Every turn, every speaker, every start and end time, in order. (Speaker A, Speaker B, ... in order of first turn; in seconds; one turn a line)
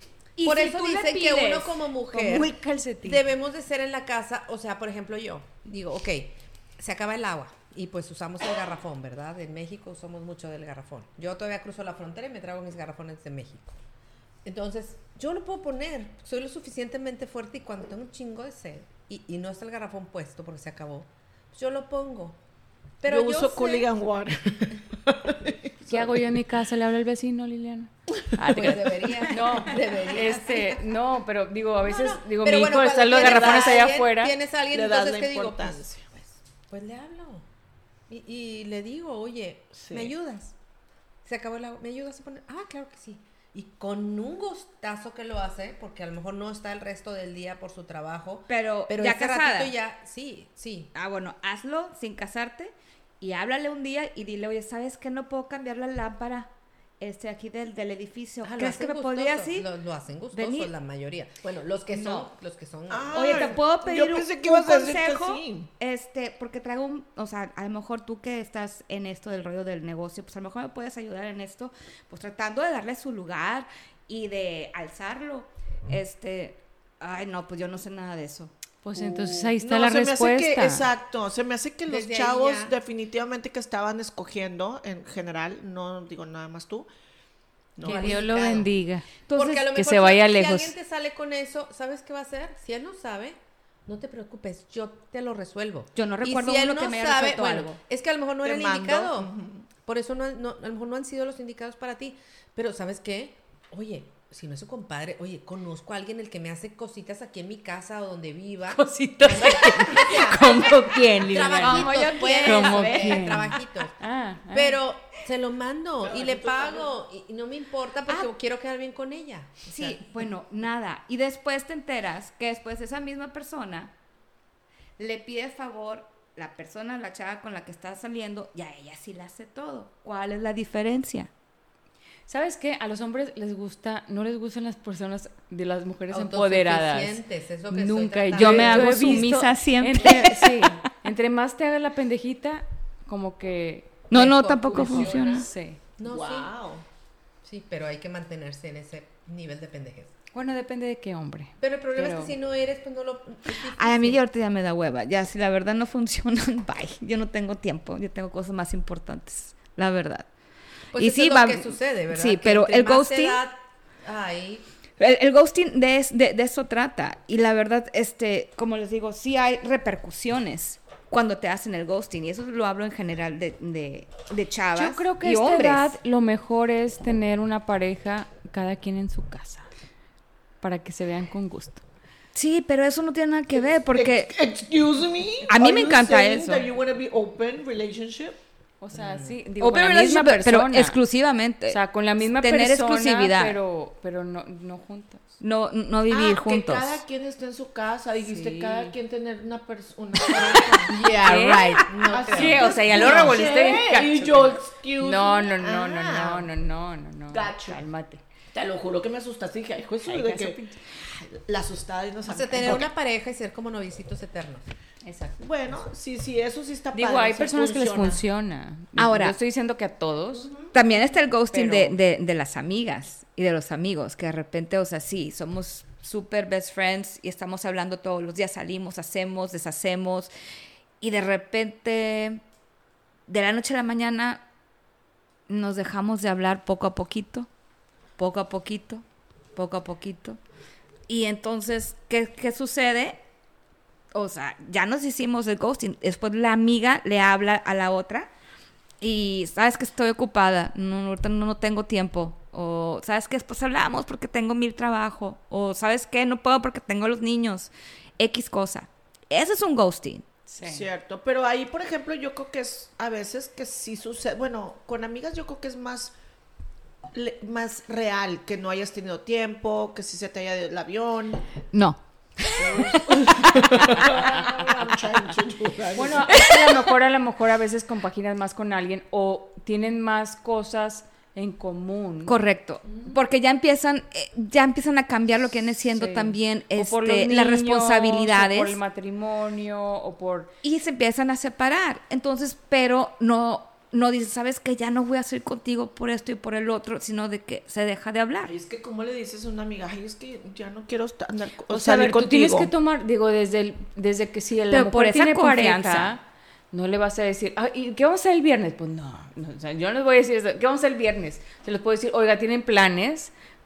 Speaker A: 0.4-1.7
Speaker B: 0.4-13.8
Speaker C: 2.1-3.2
Speaker B: 14.4-22.4
Speaker B: 23.0-23.9
Speaker D: 23.1-26.1
Speaker C: 25.9-34.4
Speaker B: 28.4-30.9
Speaker B: 31.8-37.5
Speaker D: 33.2-33.8
Speaker D: 34.7-36.1
Speaker B: 38.1-40.5
Speaker D: 39.8-40.1
Speaker B: 41.2-50.9
Speaker A: 48.5-49.7
Speaker A: 50.9-59.7
Speaker B: 58.4-63.6
Speaker A: 60.3-60.7
Speaker A: 61.9-62.3
Speaker D: 62.9-65.7
Speaker A: 63.1-78.5
Speaker C: 78.8-80.9
Speaker D: 79.0-86.9
Speaker B: 81.9-82.8
Speaker D: 87.8-88.2
Speaker B: 87.8-88.7
Speaker C: 87.8-89.1
Speaker A: 89.3-89.6
Speaker B: 89.3-99.3
Speaker C: 89.6-90.7
Speaker A: 96.0-97.8
Speaker D: 98.4-99.7
Speaker B: 99.8-114.0
Speaker C: 108.7-114.8
Speaker A: 111.6-113.6
Speaker B: 114.5-119.6
Speaker D: 116.0-116.9
Speaker A: 119.7-123.9
Speaker A: 125.0-131.3
Speaker C: 132.3-144.1
Speaker B: 136.1-139.3
Speaker A: 138.3-140.8
Speaker A: 144.1-145.5
Speaker B: 144.1-145.5
Speaker C: 144.7-145.8
Speaker B: 146.0-146.5
Speaker D: 146.0-146.8
Speaker B: 147.4-150.1
Speaker C: 150.3-152.3
Speaker B: 151.6-154.2
Speaker A: 153.6-160.3
Speaker B: 160.9-164.6
Speaker A: 160.9-163.4
Speaker A: 165.0-175.9
Speaker C: 174.8-179.7
Speaker C: 180.6-181.8
Speaker A: 182.3-184.3
Speaker D: 183.9-188.4
Speaker A: 185.5-186.7
Speaker C: 188.8-191.0
Speaker B: 188.9-189.4
Speaker A: 189.6-193.6
Speaker C: 191.7-195.3
Speaker A: 195.4-197.0
Speaker D: 196.1-206.5
Speaker C: 198.2-198.9
Speaker C: 200.2-208.2
Speaker B: 200.9-204.4
Speaker D: 207.3-207.8
Speaker D: 208.5-212.9
Speaker C: 210.1-210.8
Speaker B: 212.2-214.7
Speaker C: 215.0-215.4
Speaker D: 215.4-218.2
Speaker C: 216.9-220.5
Speaker A: 219.0-219.4
Speaker D: 220.3-220.7
Speaker A: 220.7-230.3
Speaker C: 221.5-222.0
Speaker A: 231.0-232.4
Speaker A: 233.3-234.4
Speaker A: 235.5-237.5
Speaker A: 238.2-239.0
Speaker A: 239.6-240.4
Speaker A: 241.1-243.2
Speaker A: 244.1-248.3
Speaker A: 249.0-260.3
Speaker C: 260.5-260.9
Speaker D: 260.6-266.1
Speaker D: 267.1-271.4
Speaker A: 271.7-274.1
Speaker D: 272.6-276.4
Speaker C: 275.9-282.3
Speaker A: 276.3-276.9
Speaker A: 282.3-288.8
Speaker C: 285.9-290.5
Speaker A: 290.6-298.5
Speaker D: 298.5-302.7
Speaker C: 301.7-313.3
Speaker A: 304.7-306.1